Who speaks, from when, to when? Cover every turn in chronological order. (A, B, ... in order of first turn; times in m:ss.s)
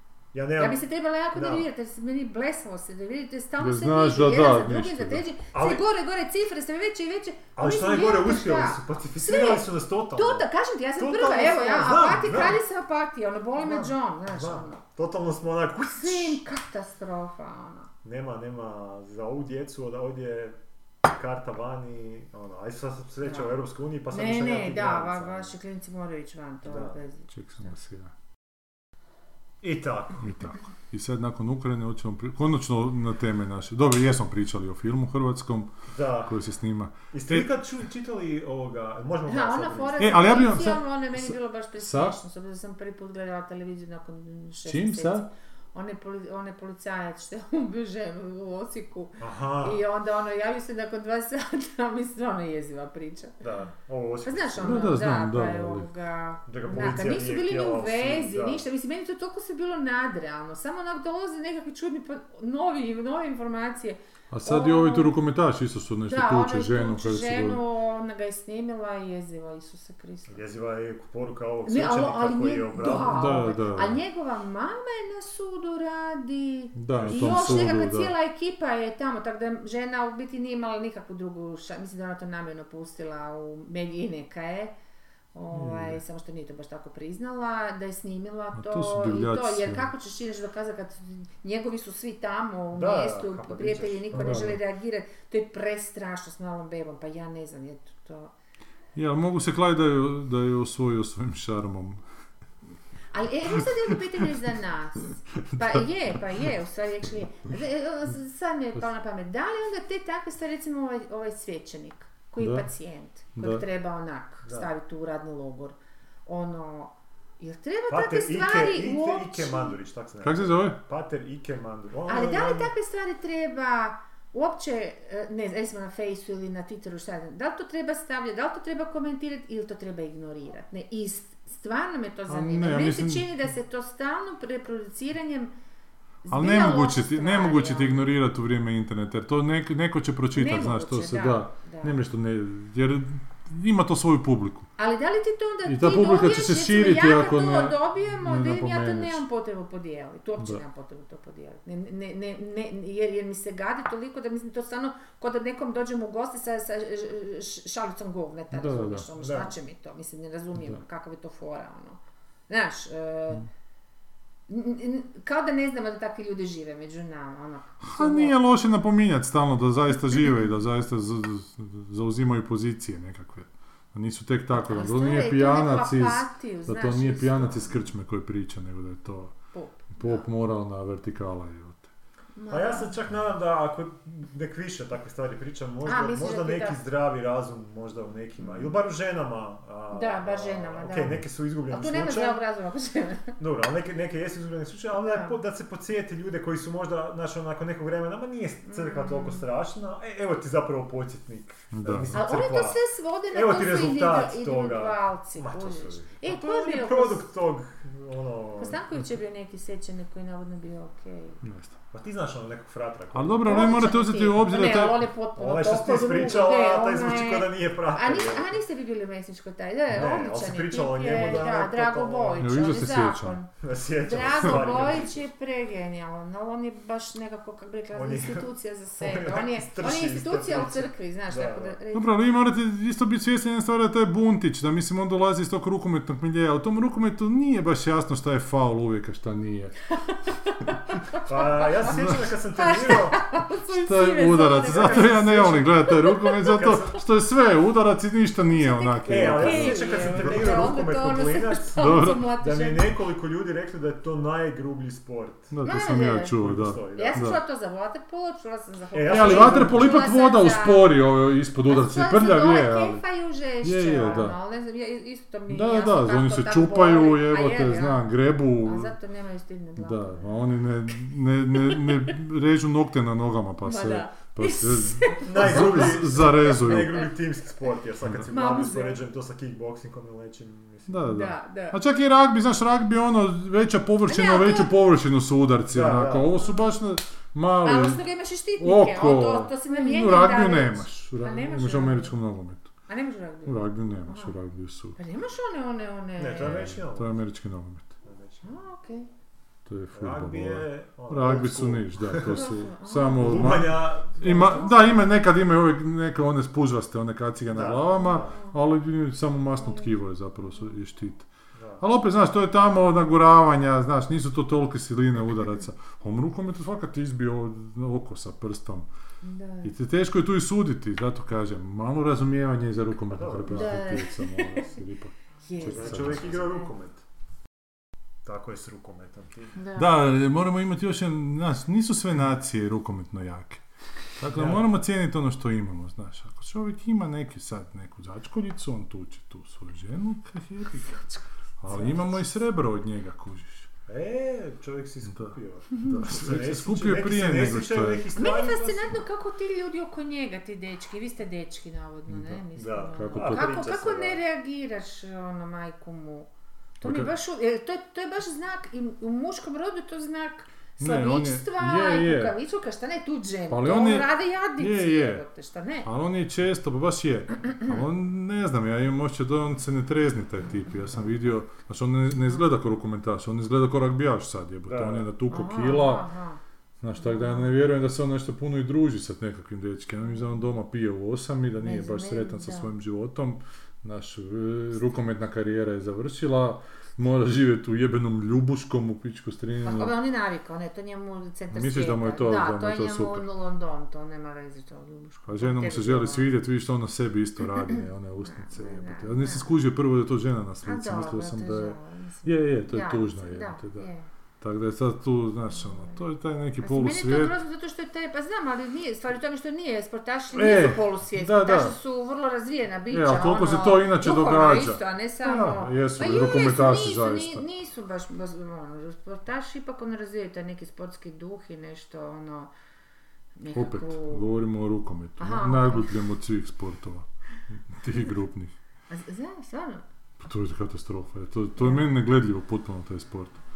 0:00.3-0:00.8 A
0:00.6-0:14.8 B
0:01.3-0:01.7 A
0:03.6-0:05.2 C
0:05.5-0:05.8 A
0:07.6-0:12.6 A
0:13.6-0:16.4 A
0:15.8-0:17.9 B
0:18.0-0:25.5 A
0:23.2-0:23.6 B
0:24.1-0:27.7 B
0:26.6-0:27.0 A
0:27.3-0:28.1 C
0:29.6-0:30.3 A
0:30.2-0:35.7 C
0:35.9-0:36.4 A
0:36.2-0:37.5 C
0:37.1-0:40.3 A
0:39.3-0:53.4 B
0:40.0-0:42.2 C
0:44.6-0:45.3 C
0:49.2-0:49.8 A
0:53.4-0:55.0 A
0:54.2-1:05.1 B
0:54.6-0:55.9 C
0:56.5-0:58.6 A
1:04.3-1:07.6 C
1:06.1-1:10.4 B
1:10.3-1:13.5 A
1:11.6-1:24.7 B
1:12.8-1:14.0 C
1:16.8-1:18.1 C
1:16.9-1:17.8 A
1:25.3-1:38.3 B
1:25.5-1:26.0 C
1:28.6-1:29.9 C
1:32.7-1:34.6 A
1:34.1-1:34.6 C
1:38.9-1:42.0 C
1:43.1-1:59.8 B
1:52.4-1:52.6 C
1:53.4-1:53.6 C
1:54.4-1:54.7 A
1:57.9-2:02.7 A
2:00.2-2:00.8 C
2:02.1-2:15.5 B
2:12.3-2:13.3 C
2:16.2-2:18.1 B
2:16.3-2:24.7 C
2:20.3-2:22.0 B
2:24.8-2:43.5 B
2:25.6-2:29.2 C
2:38.5-2:39.1 C
2:39.2-2:39.5 A
2:44.5-2:48.4 B
2:47.8-2:59.4 C
2:54.7-2:57.8 B
2:59.5-3:00.2 B
2:59.9-3:01.9 C
3:02.4-3:02.9 B
3:02.5-3:12.4 A
3:05.8-3:06.8 B
3:08.4-3:08.7 B
3:09.9-3:13.4 B
3:13.4-3:22.8 A
3:15.0-3:15.4 B
3:18.6-3:19.4 B
3:21.7-3:22.2 C
3:22.1-3:27.2 B
3:23.3-3:28.8 A
3:28.6-3:31.4 B
3:31.4-3:31.7 C
3:31.9-3:33.9 A
3:33.1-3:35.1 C
3:33.4-3:52.2 B
3:35.4-3:38.6 A
3:39.9-3:42.7 A
3:42.4-3:43.4 C
3:43.6-3:45.3 A
3:47.9-3:51.8 A
3:51.9-3:59.9 C
3:59.9-4:05.2 B
4:01.3-4:03.2 A
4:01.9-4:02.2 C
4:03.7-4:10.4 C
4:04.6-4:05.8 A
4:05.8-4:06.6 B
4:06.4-4:07.0 A
4:08.5-4:12.9 B
4:09.1-4:15.5 A
4:11.8-4:12.2 C
4:15.5-4:17.4 C
4:15.6-4:16.4 B
4:16.4-4:17.2 A
4:16.9-4:20.9 B
4:18.9-4:20.0 A
4:19.1-4:23.0 C
4:21.7-4:28.1 B
4:23.6-4:24.4 C
4:25.5-4:28.9 C
4:28.6-4:30.3 B
4:29.8-4:37.0 C
4:31.5-4:32.1 B
4:33.6-4:37.1 B
4:35.2-4:41.1 A
4:38.3-4:39.0 B
4:40.9-4:48.0 C
4:41.1-4:41.8 B
4:44.0-4:44.7 B
4:45.7-4:46.4 A
4:46.4-4:46.7 B
4:47.6-4:52.2 B
4:48.6-4:52.7 C
4:52.9-4:54.3 B
4:53.4-4:55.0 C
4:55.0-4:56.8 B
4:56.2-4:57.1 A
4:56.5-4:57.9 C
4:58.0-4:58.4 A
4:58.4-4:59.1 B
4:59.6-5:11.3 C
4:59.9-5:02.4 A
5:02.2-5:03.7 B
5:03.2-5:04.7 A
5:04.2-5:05.0 B
5:07.5-5:08.3 A
5:08.1-5:08.6 B
5:09.6-5:09.9 B
5:11.6-5:11.8 A
5:11.8-5:18.8 C
5:19.2-5:19.7 B
5:19.6-5:26.4 C
5:23.1-5:23.8 A
5:23.5-5:24.7 B
5:25.4-5:26.7 B
5:25.6-5:27.0 A
5:28.2-5:29.5 A
5:29.5-5:29.9 B
5:29.8-5:33.6 C
5:34.2-5:43.7 C
5:34.3-5:34.7 A
5:41.7-5:42.2 A
5:43.9-5:49.0 A
5:45.1-5:48.1 C
5:48.2-5:56.3 B
5:52.1-5:52.4 C
5:52.5-5:54.2 A
5:53.0-5:53.5 C
5:56.8-6:05.9 B
5:56.8-5:57.1 C
6:00.8-6:02.3 C
6:03.5-6:05.2 C
6:05.8-6:16.1 C
6:14.7-6:15.1 A
6:15.3-6:16.4 B
6:16.8-6:29.9 C
6:17.0-6:17.5 B
6:21.6-6:22.7 B
6:29.6-6:36.3 B
6:31.5-6:33.2 C
6:35.3-6:43.9 C
6:37.7-6:39.5 B
6:40.6-6:44.1 B
6:44.4-6:47.3 C
6:45.5-6:46.0 B
6:46.6-7:02.5 B
6:50.3-6:51.8 C
6:52.9-6:57.4 C
7:03.4-7:04.3 B
7:03.5-7:07.1 C
7:05.2-7:05.9 B
7:07.7-7:08.5 C
7:08.9-7:09.8 B
7:10.2-7:13.4 C
7:11.6-7:11.8 B